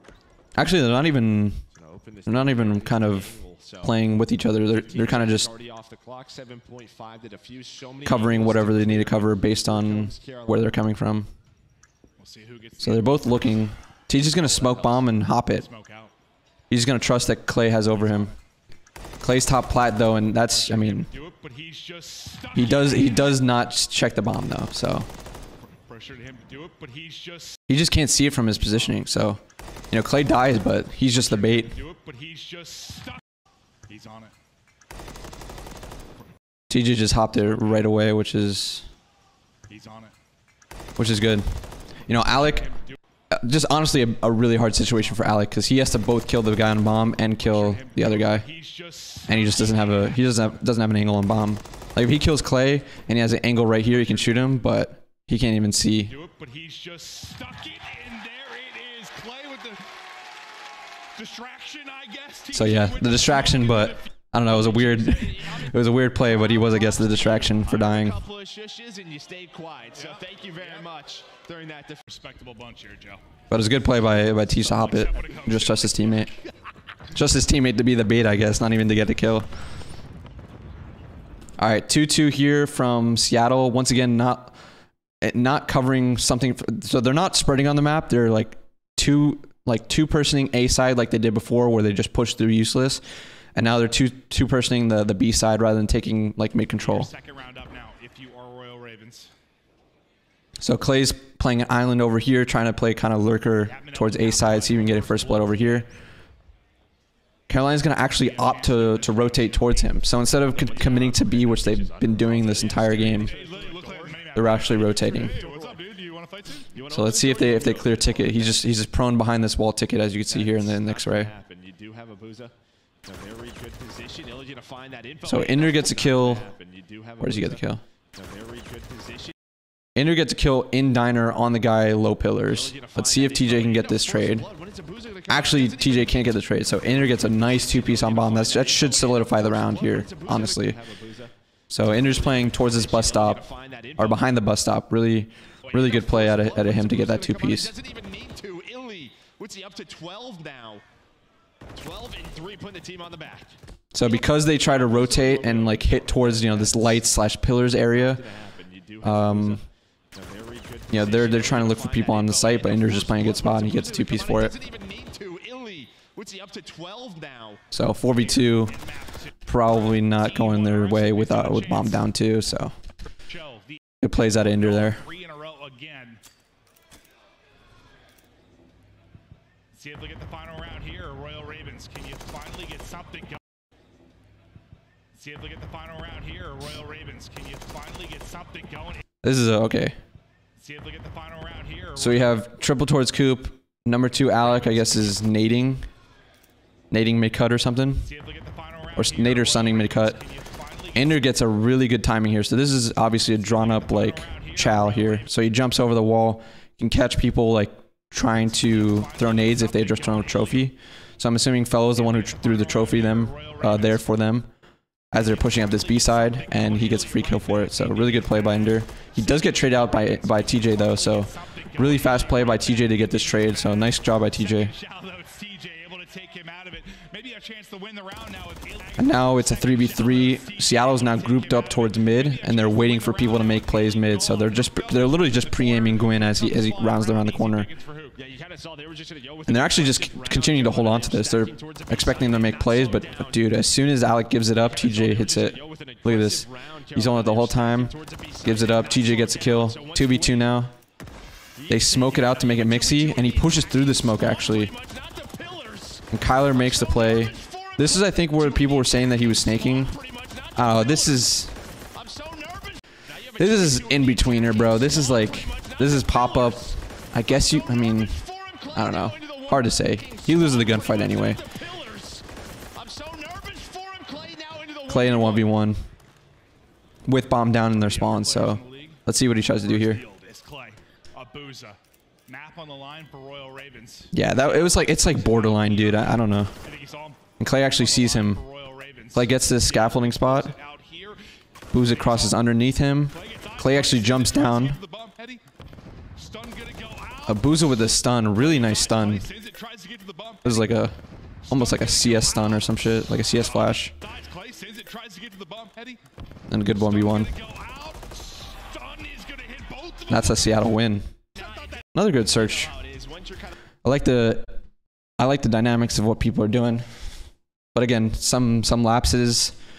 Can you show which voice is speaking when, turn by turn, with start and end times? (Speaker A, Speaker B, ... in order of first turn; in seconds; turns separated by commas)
Speaker A: 0.6-1.6, Speaker B: 1.7-4.0, Speaker A: 2.2-5.5, Speaker B: 4.7-10.8, Speaker A: 8.0-11.3, Speaker C: 12.2-13.7, Speaker A: 12.8-15.6, Speaker C: 14.3-16.1, Speaker A: 16.7-18.3, Speaker C: 17.9-18.4, Speaker A: 19.2-21.1, Speaker C: 20.5-23.4, Speaker A: 22.5-25.1, Speaker C: 25.6-27.6, Speaker A: 27.7-29.4, Speaker A: 29.9-31.8, Speaker C: 31.1-33.2, Speaker C: 33.9-34.3, Speaker A: 36.7-38.9, Speaker C: 39.7-40.1, Speaker A: 41.0-41.5, Speaker A: 42.1-42.7, Speaker C: 42.6-43.0, Speaker A: 43.3-48.5, Speaker C: 47.4-50.2, Speaker A: 49.3-56.1, Speaker C: 54.0-54.4, Speaker C: 56.1-59.9, Speaker C: 61.1-64.1, Speaker A: 62.5-68.2, Speaker B: 64.5-72.0, Speaker C: 69.9-70.9, Speaker C: 72.1-73.2, Speaker A: 73.5-76.3, Speaker C: 74.4-76.3, Speaker A: 77.1-79.5, Speaker A: 81.6-84.5, Speaker A: 85.2-93.0, Speaker A: 93.5-97.1, Speaker C: 96.7-99.3, Speaker A: 100.6-105.9, Speaker C: 103.6-105.9, Speaker A: 107.5-113.3, Speaker C: 108.0-110.3, Speaker B: 110.3-115.8, Speaker C: 113.2-116.7, Speaker A: 114.3-115.4, Speaker B: 116.7-118.7, Speaker A: 116.9-121.3, Speaker B: 120.2-129.3, Speaker A: 125.2-126.5, Speaker A: 127.2-127.8, Speaker A: 129.9-134.4, Speaker B: 132.4-144.3, Speaker A: 135.3-140.8, Speaker A: 141.7-143.4, Speaker A: 144.0-147.7, Speaker B: 145.6-150.8, Speaker B: 151.7-157.1, Speaker A: 153.9-158.2, Speaker B: 157.9-167.6, Speaker A: 159.0-159.6, Speaker A: 160.9-164.5, Speaker A: 167.7-168.8, Speaker C: 168.1-172.1, Speaker A: 169.4-172.7, Speaker C: 173.2-173.8, Speaker A: 174.0-175.0, Speaker C: 174.4-176.2, Speaker C: 179.7-183.4, Speaker C: 185.1-189.0, Speaker A: 189.2-190.0, Speaker C: 190.6-192.4, Speaker A: 192.0-195.9, Speaker C: 194.4-195.0, Speaker A: 196.9-198.1, Speaker C: 198.0-201.3, Speaker A: 198.9-200.2, Speaker A: 200.9-214.5, Speaker C: 203.3-205.5, Speaker C: 208.5-210.7, Speaker C: 211.9-214.1, Speaker A: 215.1-224.7, Speaker C: 215.2-238.2, Speaker A: 229.0-237.7, Speaker B: 238.1-243.5, Speaker A: 239.5-250.7, Speaker B: 244.6-250.5, Speaker B: 251.6-261.3, Speaker A: 251.7-254.7, Speaker A: 256.1-260.0, Speaker A: 260.5-261.5, Speaker B: 261.9-275.6, Speaker A: 263.4-268.2, Speaker A: 268.7-271.4, Speaker A: 274.9-275.8, Speaker A: 277.1-280.0, Speaker C: 277.8-292.4, Speaker A: 284.1-286.5, Speaker A: 287.4-288.4, Speaker A: 289.1-290.5, Speaker A: 291.7-294.8, Speaker C: 293.1-295.4, Speaker C: 296.1-300.6, Speaker A: 297.2-299.2, Speaker A: 300.4-300.9, Speaker C: 301.4-306.0, Speaker A: 301.5-303.9, Speaker A: 306.5-307.3, Speaker C: 306.6-310.6, Speaker A: 310.1-311.1, Speaker C: 311.3-311.9, Speaker B: 311.3-313.6, Speaker A: 311.9-312.7, Speaker A: 313.8-314.5, Speaker A: 315.2-317.1, Speaker A: 317.7-319.6